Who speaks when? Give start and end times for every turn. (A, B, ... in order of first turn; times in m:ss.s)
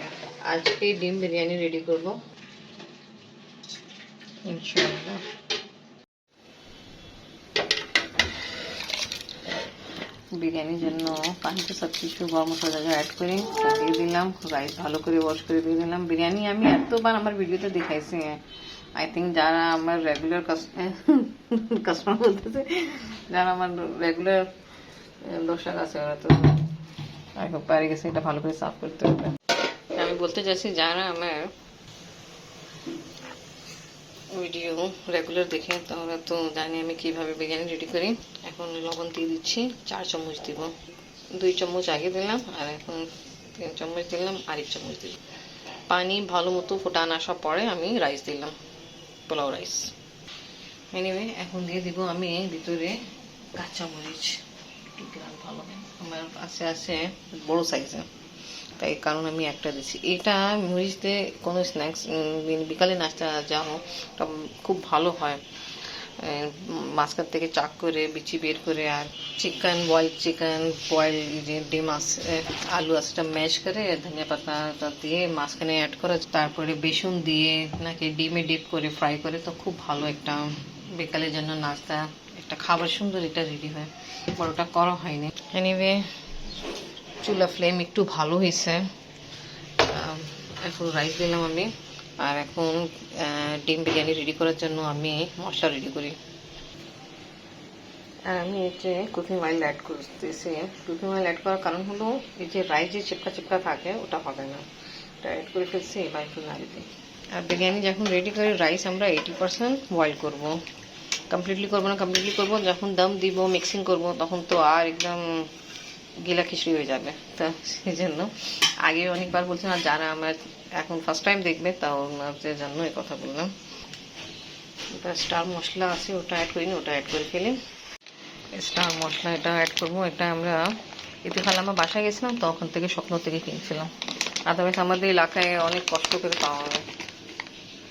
0:00.4-0:02.2 A
0:04.4-0:05.2 A
0:10.4-0:18.4 A
0:19.0-0:24.5 A
0:25.2-0:26.6 A
0:27.4-0:29.4 A
0:29.9-0:31.5 A
0:34.3-0:40.7 A
0:41.3-0:45.2 A
0:45.9-0:48.6 A
0:49.3-0:49.9 A
0:50.9-0:53.0 A
0:53.5-0:54.4 A
0:54.9-0:58.1 A
0:58.8-1:26.0 A
1:27.2-1:28.8 A
1:29.8-1:36.2 A
1:38.2-1:44.6 A
1:45.2-1:50.6 A
1:51.3-1:55.5 A
1:56.2-2:03.5 A
2:04.9-2:07.6 A
2:08.5-2:13.9 A
2:14.5-2:16.8 A